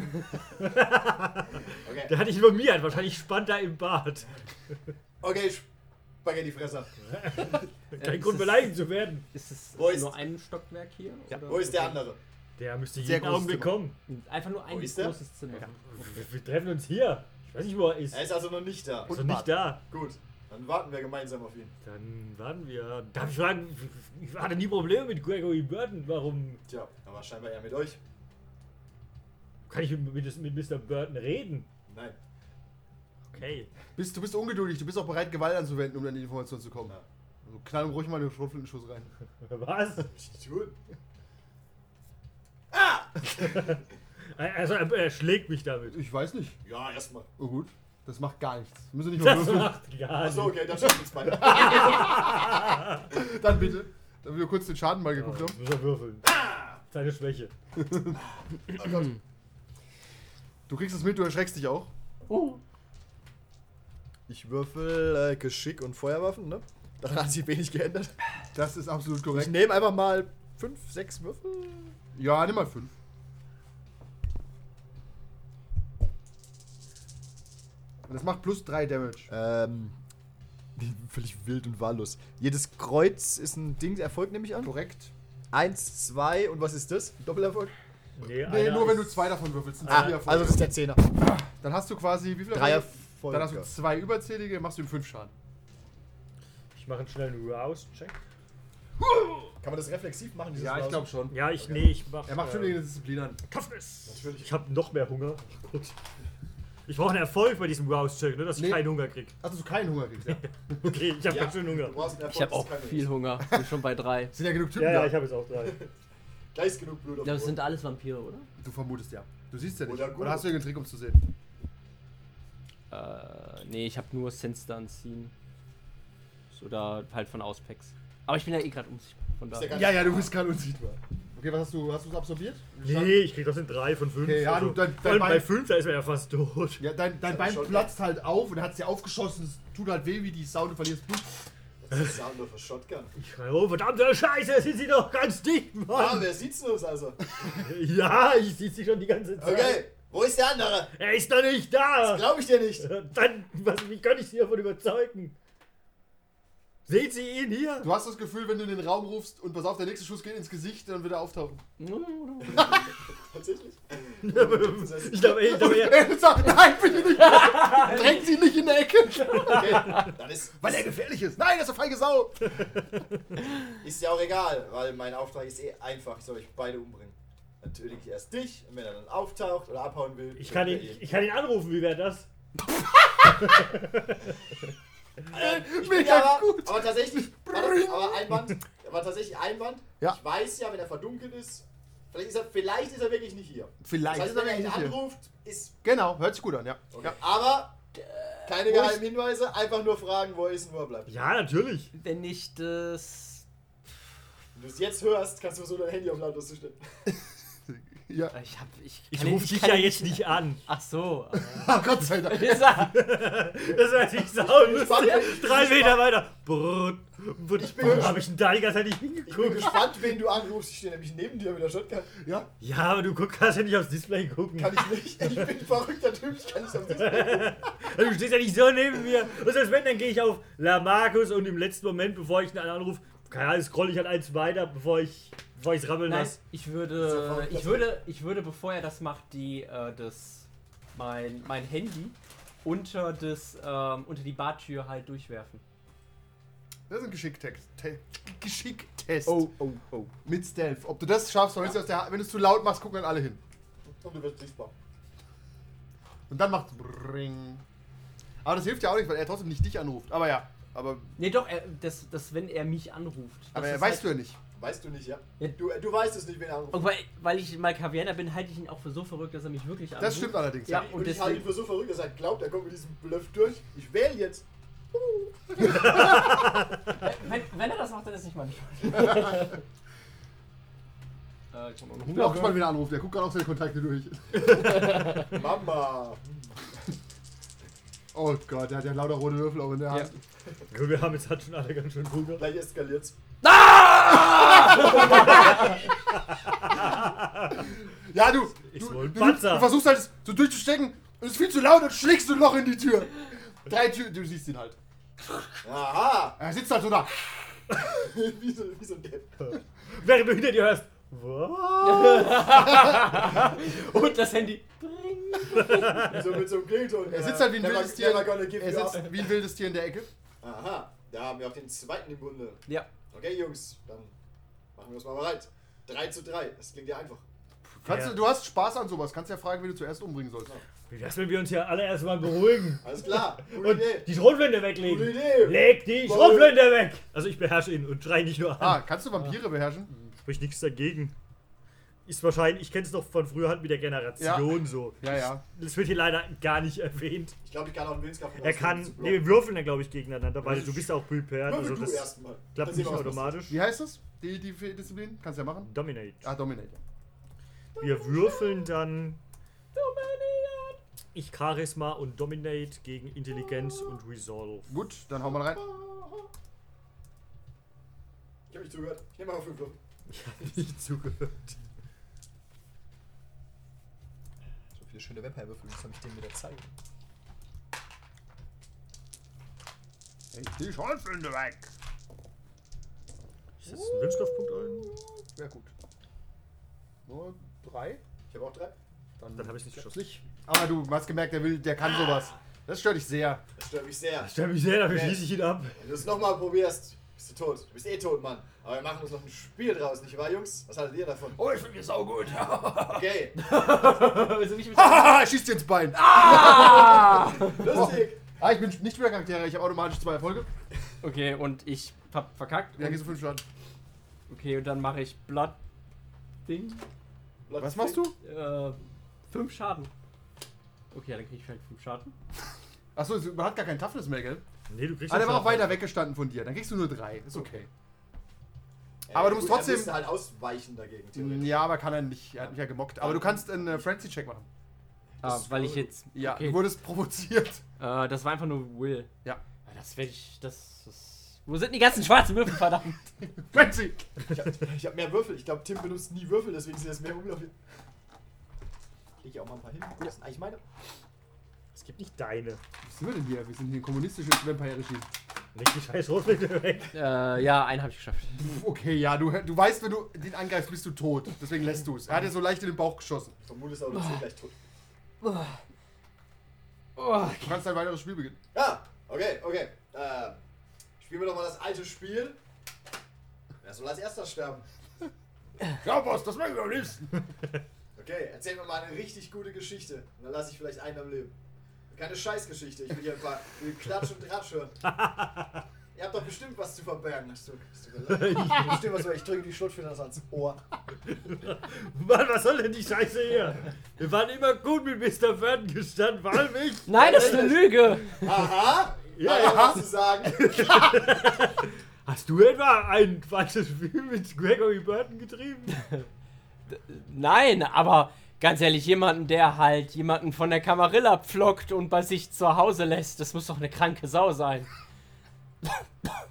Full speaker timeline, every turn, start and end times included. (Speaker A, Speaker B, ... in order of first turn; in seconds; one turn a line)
Speaker A: 0.4-4.3
Speaker B: 1.8-2.1
Speaker B: 5.2-5.7
Speaker B: 6.2-6.9
Speaker A: 7.0-9.3
Speaker C: 8.0-8.8
Speaker C: 9.3-12.1
Speaker B: 9.7-10.2
Speaker B: 11.5-12.2
Speaker A: 12.6-14.0
Speaker D: 13.0-13.9
Speaker C: 14.1-15.7
Speaker B: 14.7-15.2
Speaker A: 15.6-18.3
Speaker B: 18.1-19.1
Speaker D: 19.1-19.6
Speaker A: 19.1-19.8
Speaker B: 19.9-21.7
Speaker A: 21.8-26.6
Speaker B: 26.7-28.0
Speaker A: 29.7-31.7
Speaker B: 31.9-32.1
Speaker A: 33.3-33.7
Speaker D: 33.9-39.1
Speaker A: 39.4-40.1
Speaker B: 40.1-40.8
Speaker B: 42.7-43.4
Speaker A: 43.3-43.8
Speaker A: 44.3-46.0
Speaker D: 45.9-46.6
Speaker B: 46.6-47.3
Speaker D: 47.4-49.8
Speaker A: 49.2-53.1
Speaker B: 50.2-52.3
Speaker D: 51.4-52.5
Speaker D: 53.1-55.6
Speaker A: 55.1-57.5
Speaker D: 57.8-58.1
Speaker B: 58.1-59.2
Speaker D: 60.7-61.9
Speaker C: 62.3-62.6
Speaker B: 64.3-68.2
Speaker D: 68.5-69.7
Speaker B: 69.3-72.0
Speaker D: 72.1-72.9
Speaker D: 78.0-79.3
Speaker B: 79.3-80.0
Speaker B: 80.8-84.7
Speaker D: 84.6-85.1
Speaker B: 85.5-87.7
Speaker A: 88.2-89.2
Speaker D: 88.4-95.3
Speaker B: 89.8-91.1
Speaker B: 92.5-93.7
Speaker A: 96.7-98.2
Speaker B: 99.6-101.9
Speaker D: 100.5-101.4
Speaker A: 101.3-102.8
Speaker D: 102.2-103.4
Speaker A: 103.5-105.9
Speaker B: 104.1-104.5
Speaker A: 106.9-109.3
Speaker D: 108.5-108.9
Speaker D: 109.4-111.0
Speaker A: 110.3-112.0
Speaker B: 111.2-113.1
Speaker C: 112.3-114.3
Speaker D: 114.3-115.2
Speaker A: 114.7-115.8
Speaker B: 115.6-115.9
Speaker B: 116.5-117.7
Speaker C: 117.2-118.5
Speaker D: 118.6-121.2
Speaker B: 119.8-120.5
Speaker C: 122.9-125.3
Speaker C: 126.5-129.9
Speaker B: 129.5-130.3
Speaker D: 129.7-133.2
Speaker A: 132.8-136.8
Speaker D: 134.2-135.5
Speaker D: 136.8-141.5
Speaker B: 137.2-137.9
Speaker B: 141.8-143.1
Speaker A: 143.2-146.3
Speaker B: 145.9-147.2
Speaker A: 147.4-149.8
Speaker B: 149.4-150.9
Speaker A: 150.9-155.3
Speaker B: 152.0-152.9
Speaker A: 156.9-157.9
Speaker D: 157.8-161.6
Speaker C: 161.8-162.8
Speaker B: 162.5-165.7
Speaker A: 164.2-166.2
Speaker D: 165.5-172.6
Speaker C: 167.5-168.0
Speaker B: 169.4-171.0
Speaker B: 173.8-181.0
Speaker A: 180.3-182.3
Speaker B: 185.3-195.8
Speaker D: 185.3-188.5
Speaker D: 193.8-195.0
Speaker D: 195.8-197.2
Speaker B: 196.9-197.8
Speaker C: 198.0-198.5
Speaker B: 198.4-201.3
Speaker D: 198.6-199.1
Speaker A: 201.1-201.9
Speaker C: 201.9-203.4
Speaker B: 204.5-206.8
Speaker D: 207.1-208.3
Speaker C: 208.3-211.7
Speaker A: 209.1-210.6
Speaker D: 211.3-212.9
Speaker C: 212.2-213.1
Speaker A: 212.9-220.1
Speaker B: 213.6-216.0
Speaker B: 217.6-218.3
Speaker B: 219.3-222.1
Speaker D: 222.2-222.5
Speaker A: 222.6-225.5
Speaker B: 224.6-227.6
Speaker A: 226.9-236.4
Speaker C: 236.1-245.6
Speaker B: 236.9-238.0
Speaker D: 246.9-249.5
Speaker C: 249.2-250.1
Speaker D: 250.2-253.4
Speaker B: 253.8-254.7
Speaker D: 256.3-257.6
Speaker D: 258.4-261.1
Speaker C: 261.2-264.1
Speaker D: 263.5-264.4
Speaker B: 264.5-266.9
Speaker C: 266.7-271.5
Speaker D: 270.0-270.9
Speaker B: 270.7-274.4
Speaker B: 275.6-276.0
Speaker D: 275.7-276.0
Speaker C: 276.9-279.6
Speaker C: 281.5-282.7
Speaker D: 282.0-285.2
Speaker B: 284.6-286.2
Speaker D: 288.1-290.2
Speaker A: 290.7-292.4
Speaker B: 292.4-293.2
Speaker C: 293.4-295.6
Speaker D: 294.3-295.6
Speaker B: 294.8-295.4
Speaker A: 295.0-295.6
Speaker A: 296.6-297.7
Speaker D: 297.6-305.6
Speaker A: 298.7-299.7
Speaker B: 305.6-306.4
Speaker D: 306.4-307.7
Speaker B: 307.8-309.6
Speaker A: 309.4-312.9
Speaker C: 311.8-315.9
Speaker B: 315.5-319.3
Speaker A: 315.5-316.4
Speaker D: 317.1-320.1
Speaker B: 320.4-324.1
Speaker B: 324.7-327.2
Speaker D: 327.6-330.5
Speaker A: 327.8-328.2
Speaker A: 330.9-339.3
Speaker B: 332.8-334.1
Speaker B: 334.7-336.6
Speaker D: 338.6-339.9
Speaker A: 340.2-341.1
Speaker A: 342.1-347.4
Speaker D: 344.2-345.4
Speaker B: 347.4-349.2
Speaker A: 348.4-353.6
Speaker B: 350.4-350.8
Speaker B: 351.4-353.4
Speaker D: 352.7-356.8
Speaker A: 355.6-356.3
Speaker B: 357.7-358.7
Speaker A: 357.8-359.2
Speaker B: 359.7-360.8
Speaker A: 361.1-364.7
Speaker D: 364.7-365.6
Speaker B: 365.2-366.3
Speaker B: 368.5-369.8
Speaker A: 370.1-371.6
Speaker B: 374.7-376.7
Speaker D: 380.3-381.7
Speaker A: 383.6-384.9
Speaker D: 383.7-385.7
Speaker D: 387.1-388.0
Speaker B: 388.3-388.8
Speaker D: 389.2-393.4
Speaker A: 389.3-390.2
Speaker B: 393.6-394.3
Speaker A: 394.2-395.8
Speaker B: 394.8-395.2
Speaker B: 395.8-401.4
Speaker D: 401.4-403.1
Speaker B: 402.9-403.4
Speaker C: 403.4-405.1
Speaker D: 404.7-410.5
Speaker C: 405.9-407.8
Speaker B: 407.3-408.3
Speaker C: 411.0-413.1
Speaker D: 412.8-413.4
Speaker C: 414.3-415.6
Speaker C: 416.4-416.8
Speaker B: 417.5-418.0
Speaker D: 417.5-418.1
Speaker C: 418.2-419.9
Speaker C: 420.9-422.1
Speaker D: 422.9-424.4
Speaker A: 424.7-425.9
Speaker D: 425.1-427.7
Speaker B: 429.1-431.7
Speaker D: 429.1-430.0
Speaker D: 431.1-434.5
Speaker B: 433.0-433.8
Speaker B: 435.2-435.7
Speaker C: 435.2-436.7
Speaker D: 435.2-437.6
Speaker C: 437.8-439.1
Speaker C: 439.6-443.0
Speaker D: 443.2-444.1
Speaker B: 444.3-447.5
Speaker B: 449.2-450.6
Speaker A: 451.7-452.6
Speaker D: 452.8-455.1
Speaker A: 455.5-456.9
Speaker C: 456.9-458.4
Speaker D: 458.4-463.3
Speaker B: 463.4-464.6
Speaker C: 465.2-465.6
Speaker C: 467.0-467.6
Speaker D: 467.2-468.4
Speaker B: 468.5-470.4
Speaker B: 471.0-472.4
Speaker B: 473.6-474.6
Speaker D: 475.8-477.1
Speaker B: 477.9-481.3
Speaker B: 481.9-484.7
Speaker A: 485.0-485.4
Speaker B: 485.9-490.6
Speaker A: 488.1-489.0
Speaker A: 491.1-497.4
Speaker C: 496.9-498.3
Speaker B: 496.9-501.2
Speaker A: 499.1-499.8
Speaker D: 499.3-499.8
Speaker A: 500.4-505.9
Speaker C: 506.7-514.7